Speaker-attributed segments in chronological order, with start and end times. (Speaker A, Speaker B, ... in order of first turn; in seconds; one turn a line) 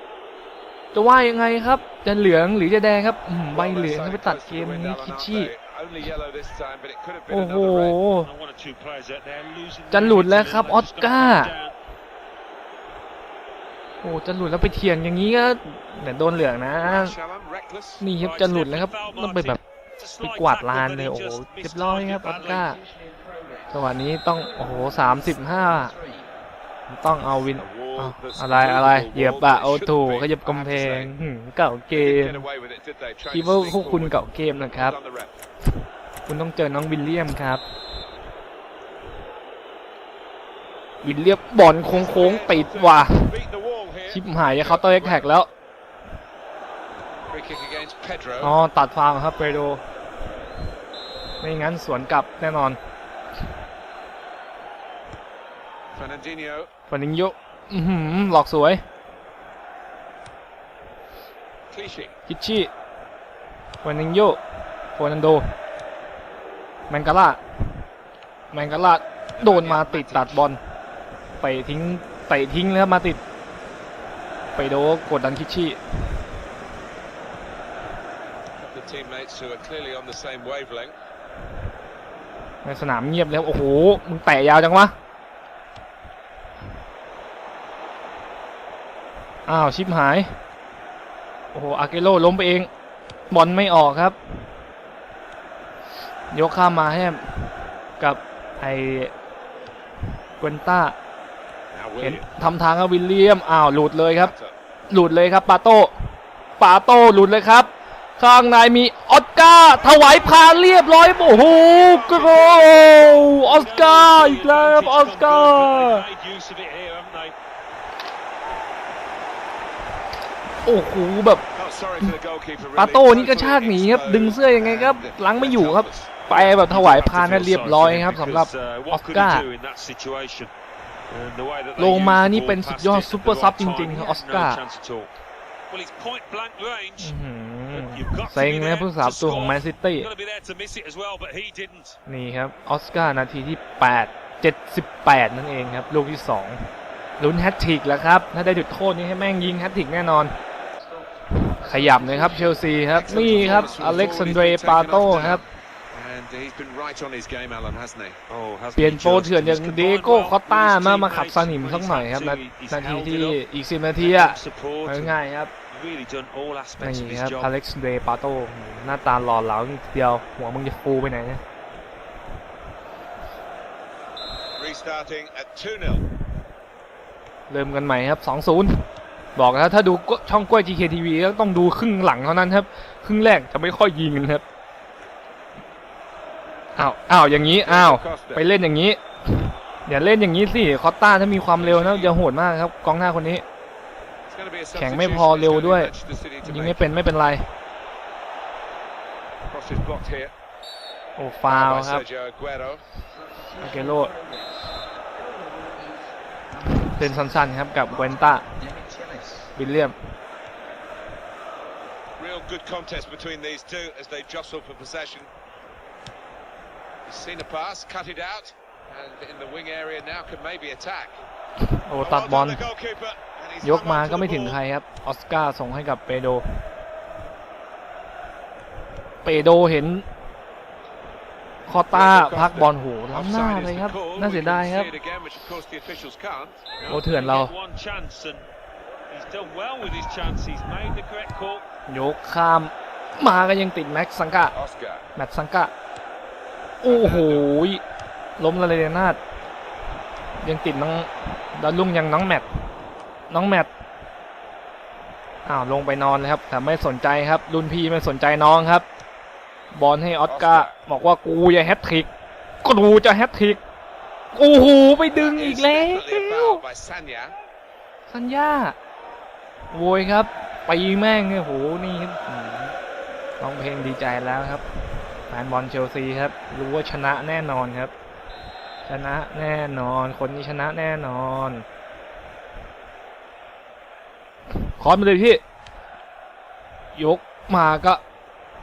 Speaker A: 0.9-5.5
Speaker B: 3.5-8.0
Speaker A: 7.3-8.3
Speaker C: 8.2-11.7
Speaker A: 9.9-11.5
Speaker A: 14.0-17.1
Speaker B: 16.8-18.1
Speaker A: 18.0-19.6
Speaker C: 18.2-22.7
Speaker A: 20.2-22.8
Speaker A: 23.7-25.9
Speaker A: 26.9-32.5
Speaker B: 27.5-31.1
Speaker B: 31.9-35.4
Speaker A: 33.3-35.0
Speaker A: 36.2-37.6
Speaker A: 41.0-43.4
Speaker B: 41.9-45.3
Speaker A: 44.1-45.5
Speaker B: 47.3-48.5
Speaker A: 48.4-49.8
Speaker A: 51.4-52.8
Speaker B: 55.9-56.7
Speaker A: 56.9-58.8
Speaker B: 61.7-62.1
Speaker A: 62.3-62.7
Speaker A: 63.8-64.4
Speaker A: 65.0-65.5
Speaker A: 66.9-67.4
Speaker A: 68.5-70.6
Speaker B: 69.4-70.5
Speaker A: 71.4-73.2
Speaker A: 74.5-75.8
Speaker B: 78.6-81.0
Speaker A: 82.6-84.9
Speaker A: 89.5-90.3
Speaker A: 91.5-92.7
Speaker A: 93.3-94.2
Speaker A: 96.3-99.1
Speaker A: 100.4-101.0
Speaker B: 101.7-102.3
Speaker A: 102.0-104.3
Speaker B: 104.2-104.5
Speaker A: 104.9-105.9
Speaker A: 106.6-116.0
Speaker B: 110.0-110.5
Speaker B: 111.2-113.3
Speaker C: 113.1-117.3
Speaker A: 120.6-121.4
Speaker B: 121.5-126.2
Speaker A: 122.8-129.5
Speaker C: 126.3-130.5
Speaker C: 131.1-135.1
Speaker A: 131.8-134.6
Speaker C: 135.7-137.1
Speaker A: 137.0-140.1
Speaker C: 137.7-142.0
Speaker A: 142.1-150.3
Speaker A: 151.3-155.4
Speaker B: 152.9-158.2
Speaker C: 153.3-153.8
Speaker C: 158.3-163.4
Speaker A: 158.8-165.5
Speaker C: 163.9-165.2
Speaker C: 165.7-167.5
Speaker A: 166.8-171.4
Speaker B: 174.5-176.0
Speaker A: 177.5-184.4
Speaker A: 186.8-193.4
Speaker B: 187.4-188.5
Speaker B: 191.5-192.2
Speaker B: 194.3-197.0
Speaker A: 194.7-197.5
Speaker B: 199.5-200.3
Speaker A: 201.2-202.0
Speaker B: 201.5-202.8
Speaker A: 203.6-204.2
Speaker A: 206.6-208.5
Speaker A: 209.5-209.9
Speaker B: 212.2-215.3
Speaker B: 217.0-221.2
Speaker A: 221.7-222.6
Speaker B: 222.0-224.6
Speaker A: 223.6-226.6
Speaker A: 229.2-230.1
Speaker A: 231.7-234.9
Speaker B: 231.9-236.8
Speaker C: 236.8-238.5
Speaker A: 236.9-237.5
Speaker C: 239.1-241.6
Speaker A: 241.9-244.5
Speaker B: 244.5-245.1
Speaker A: 245.2-245.7
Speaker A: 246.8-247.8
Speaker B: 246.8-247.5
Speaker A: 248.4-249.2
Speaker A: 250.4-252.4
Speaker A: 253.3-253.7
Speaker A: 255.4-258.9
Speaker A: 259.7-262.1
Speaker B: 260.2-260.8
Speaker A: 262.6-263.6
Speaker A: 264.3-266.6
Speaker B: 265.1-267.3
Speaker A: 268.1-268.8
Speaker A: 269.7-272.8
Speaker A: 273.4-274.6
Speaker A: 275.3-277.9
Speaker A: 278.8-281.6
Speaker A: 284.5-285.4
Speaker A: 286.9-288.0